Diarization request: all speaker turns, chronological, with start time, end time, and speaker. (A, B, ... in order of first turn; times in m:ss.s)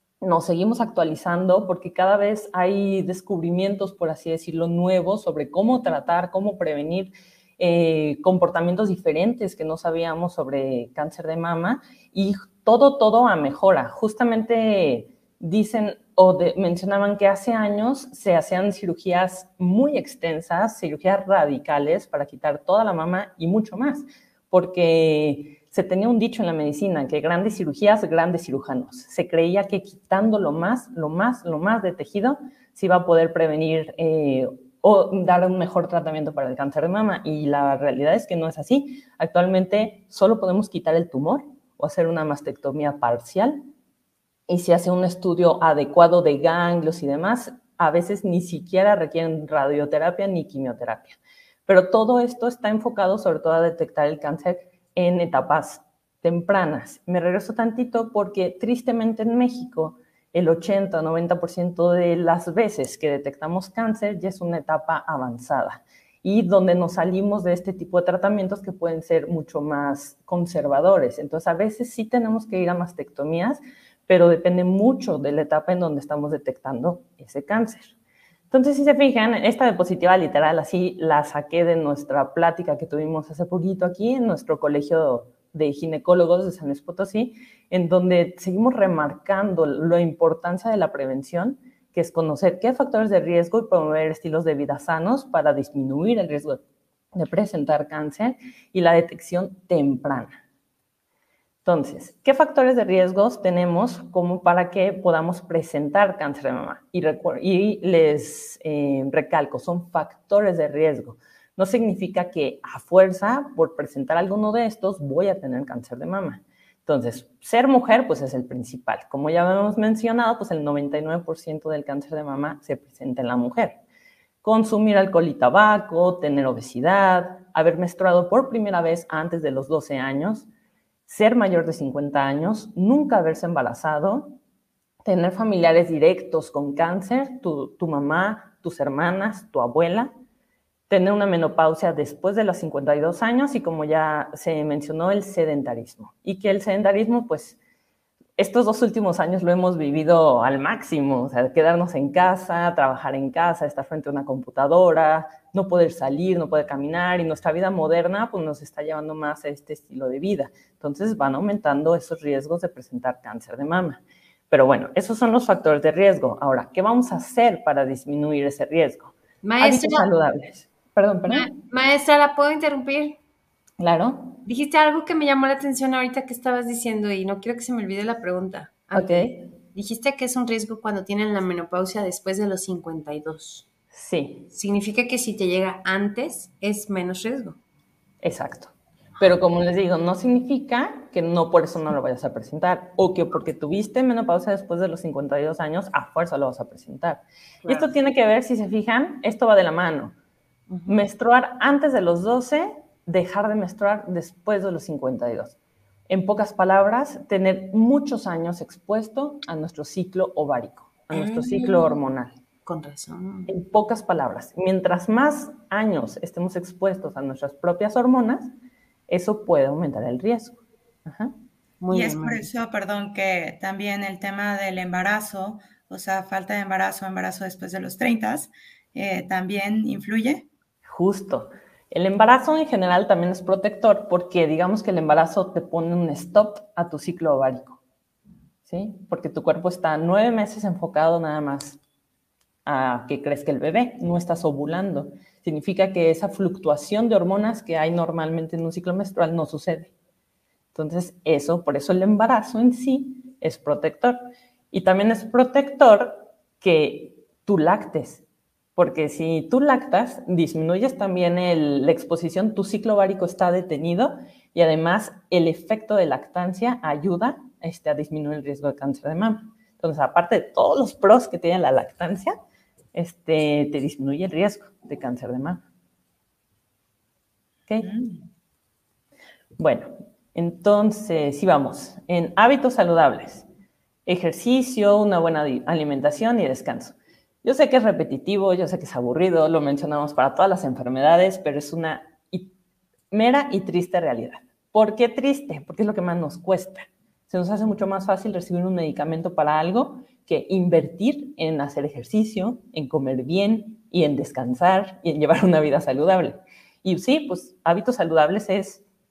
0:00.2-0:43.6 A
0:44.5-1:17.9 A
1:18.5-1:36.6 A
1:37.1-1:40.4 A
1:41.6-2:03.8 A
2:04.4-2:10.5 A
2:11.1-2:14.4 A
2:15.0-2:20.1 A
2:20.9-2:27.6 A
2:28.4-2:51.5 A
2:49.4-2:50.1 B
2:51.3-2:53.2 B
2:53.8-2:54.4 A
2:54.4-3:03.7 B
2:58.9-2:59.4 A
3:03.9-3:04.5 A
3:04.5-3:07.6 B
3:08.2-3:20.2 A
3:17.6-3:17.9 B
3:20.7-3:21.0 B
3:20.9-3:25.6 A
3:26.1-3:32.4 A
3:31.1-3:32.0 B
3:32.6-3:33.5 B
3:33.5-3:38.5 A
3:39.1-3:41.3 A
3:41.8-3:42.5 B
3:41.9-3:50.4 C
3:50.8-3:57.8 A
3:58.7-4:01.8 A
4:02.6-4:09.9 A
4:10.7-4:14.2 A
4:14.7-4:18.2 A
4:18.8-4:32.3 A
4:32.9-4:35.6 A
4:37.8-4:38.2 C
4:39.6-4:43.4 A
4:44.0-4:52.5 A
4:53.1-5:08.8 A